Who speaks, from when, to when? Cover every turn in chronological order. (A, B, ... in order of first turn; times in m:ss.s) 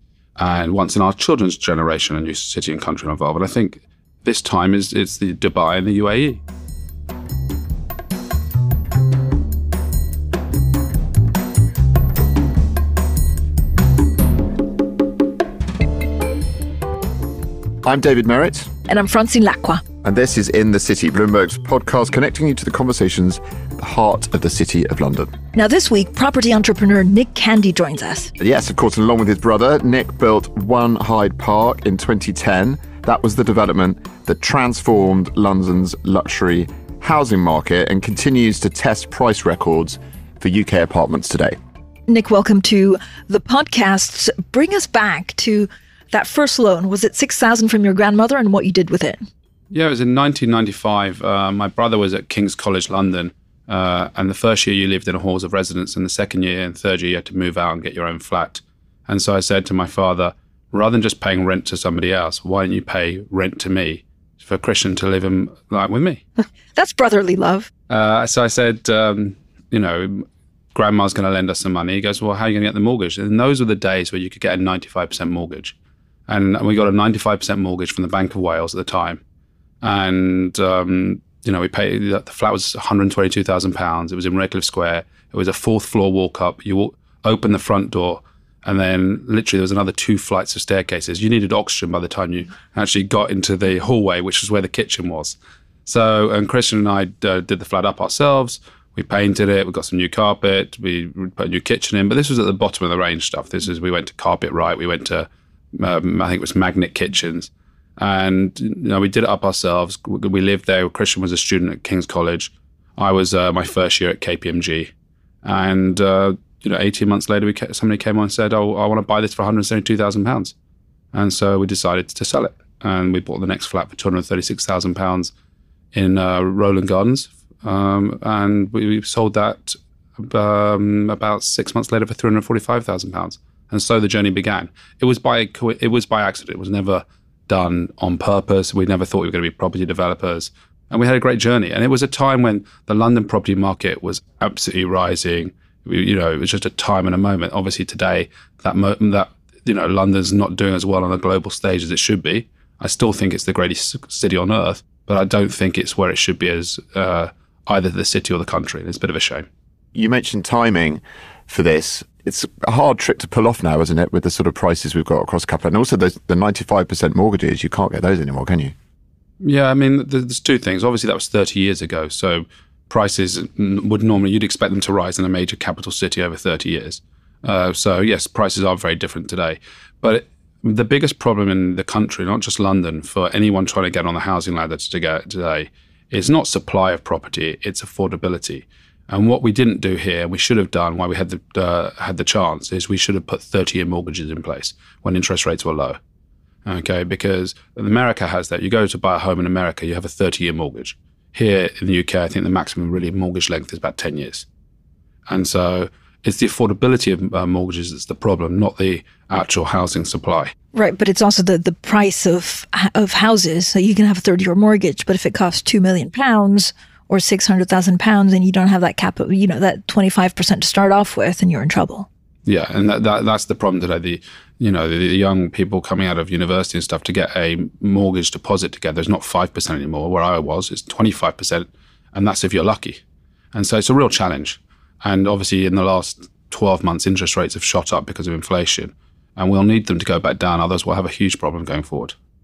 0:00.4-0:06.4 A
0:17.8-0:18.7 B
0:18.9-0:19.8 C
0:20.0-0:25.3 B
0:25.6-0:28.3 C
0:28.4-0:41.6 B
0:42.1-0:49.2 C
0:49.7-1:06.2 A
1:06.8-1:07.7 C
1:07.9-1:15.8 A
1:16.3-1:19.2 A
1:19.8-1:54.9 A
1:55.4-2:00.5 A
2:01.1-2:05.3 A
2:05.9-2:39.5 A
2:40.0-2:48.7 B
2:49.4-3:16.0 A
3:16.6-3:24.5 A
3:25.3-3:30.5 A
3:30.7-3:42.1 C
3:42.5-3:53.0 A
3:53.5-4:02.2 A